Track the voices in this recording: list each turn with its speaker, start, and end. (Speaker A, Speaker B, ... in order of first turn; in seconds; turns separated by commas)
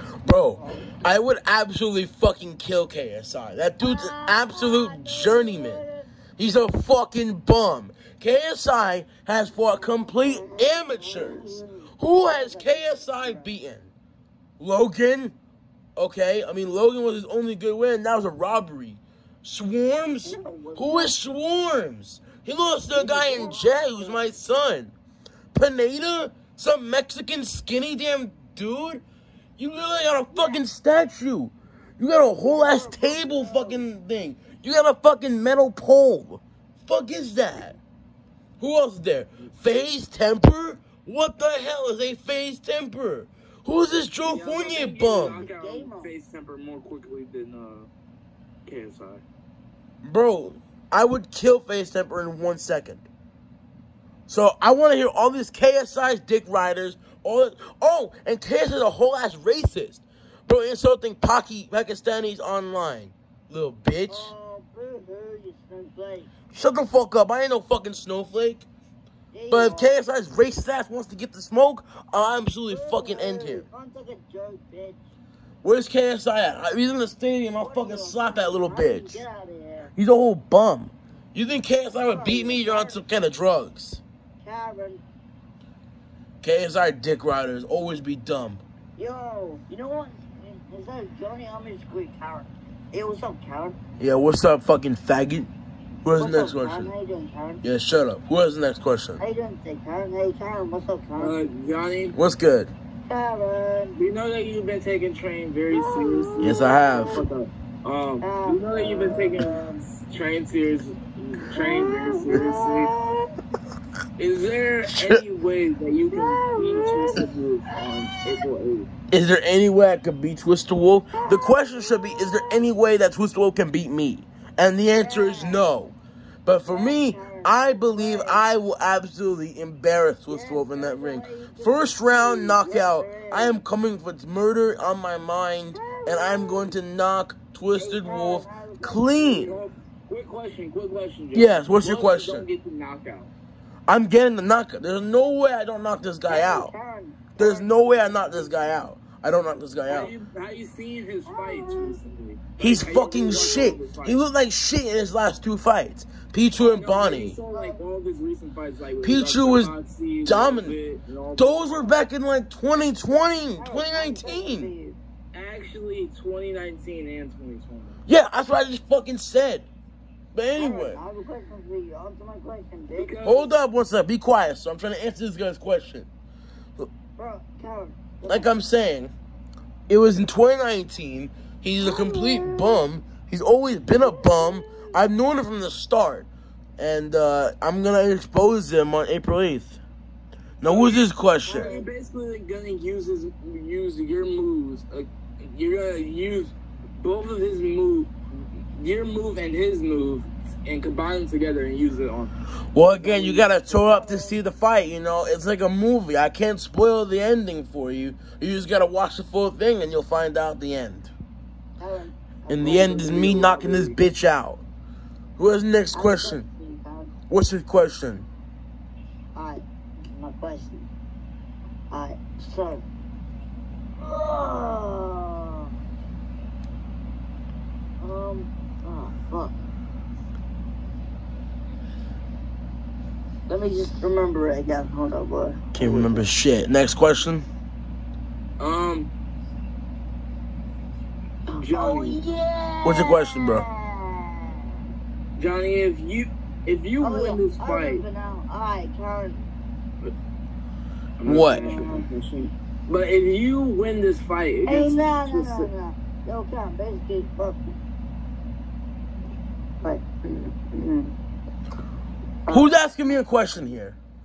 Speaker A: 0.2-5.8, Speaker B: 0.6-1.0, Speaker B: 3.8-6.1, Speaker A: 6.4-13.9, Speaker B: 10.0-13.5, Speaker A: 14.6-15.3, Speaker A: 15.9-24.9, Speaker B: 20.2-21.2, Speaker B: 22.9-24.4, Speaker A: 25.5-29.0, Speaker A: 29.6-37.7, Speaker B: 30.3-30.6, Speaker B: 32.4-33.8, Speaker A: 38.6-45.4, Speaker C: 44.2-47.9, Speaker B: 45.3-46.1, Speaker C: 48.6-49.2, Speaker A: 50.0-53.0, Speaker A: 54.3-64.3, Speaker B: 64.1-66.3, Speaker A: 66.5-68.7, Speaker B: 69.3-70.0, Speaker A: 69.5-73.6, Speaker B: 72.7-75.0, Speaker A: 75.6-79.2, Speaker B: 77.6-79.9, Speaker A: 80.0-84.0, Speaker B: 82.0-83.0, Speaker B: 84.4-85.0, Speaker A: 86.4-88.6, Speaker B: 89.0-93.8, Speaker A: 94.0-95.5, Speaker A: 96.0-96.9, Speaker B: 96.2-97.6, Speaker A: 97.6-99.2, Speaker B: 99.2-101.4, Speaker C: 101.2-102.2, Speaker A: 102.1-102.7, Speaker B: 103.0-104.0, Speaker C: 104.0-112.9, Speaker B: 105.7-107.2, Speaker A: 106.4-107.2, Speaker B: 108.2-109.8, Speaker B: 111.5-113.3, Speaker C: 114.2-118.9, Speaker A: 114.9-115.2, Speaker B: 116.1-117.2, Speaker A: 119.1-125.9, Speaker B: 121.1-122.6, Speaker B: 125.0-125.6, Speaker A: 126.4-139.5, Speaker B: 126.7-128.4, Speaker B: 130.3-133.6, Speaker B: 135.7-136.7, Speaker B: 137.7-139.7, Speaker C: 139.4-143.3, Speaker A: 141.3-142.5, Speaker A: 143.9-146.7, Speaker B: 146.3-148.8, Speaker A: 147.4-150.1, Speaker C: 149.9-154.2, Speaker B: 151.3-152.0, Speaker A: 152.6-157.4, Speaker B: 153.0-153.8, Speaker C: 156.6-161.9, Speaker B: 157.5-157.8, Speaker A: 159.0-159.7, Speaker A: 160.2-160.8, Speaker A: 161.3-164.7, Speaker B: 163.6-165.0, Speaker C: 165.3-168.0, Speaker A: 168.1-169.7, Speaker A: 170.3-171.0, Speaker B: 170.6-173.2, Speaker C: 172.9-173.5, Speaker A: 173.2-176.1, Speaker B: 177.2-178.6, Speaker A: 178.2-179.1, Speaker A: 179.9-186.3, Speaker B: 181.8-182.8, Speaker B: 184.0-184.9, Speaker A: 186.8-189.8, Speaker A: 190.6-191.7, Speaker C: 190.6-198.1, Speaker B: 191.4-191.9, Speaker C: 198.7-202.3, Speaker A: 202.7-211.1, Speaker B: 203.0-204.4, Speaker B: 211.8-213.3, Speaker A: 212.5-214.6, Speaker C: 212.6-214.0, Speaker A: 215.4-216.4, Speaker B: 215.9-217.1, Speaker A: 217.3-218.2, Speaker B: 219.3-220.9, Speaker B: 221.9-222.9, Speaker B: 224.0-225.7, Speaker B: 228.0-229.6, Speaker B: 233.5-236.3, Speaker A: 235.7-237.4, Speaker C: 238.6-239.1, Speaker B: 241.5-244.5, Speaker C: 241.6-242.2, Speaker A: 242.8-243.6, Speaker C: 245.3-248.0, Speaker B: 247.0-249.4, Speaker C: 251.2-255.7, Speaker A: 251.2-251.7, Speaker B: 251.3-252.1, Speaker B: 254.7-257.8, Speaker B: 259.8-261.1, Speaker B: 262.4-262.7, Speaker A: 262.5-264.0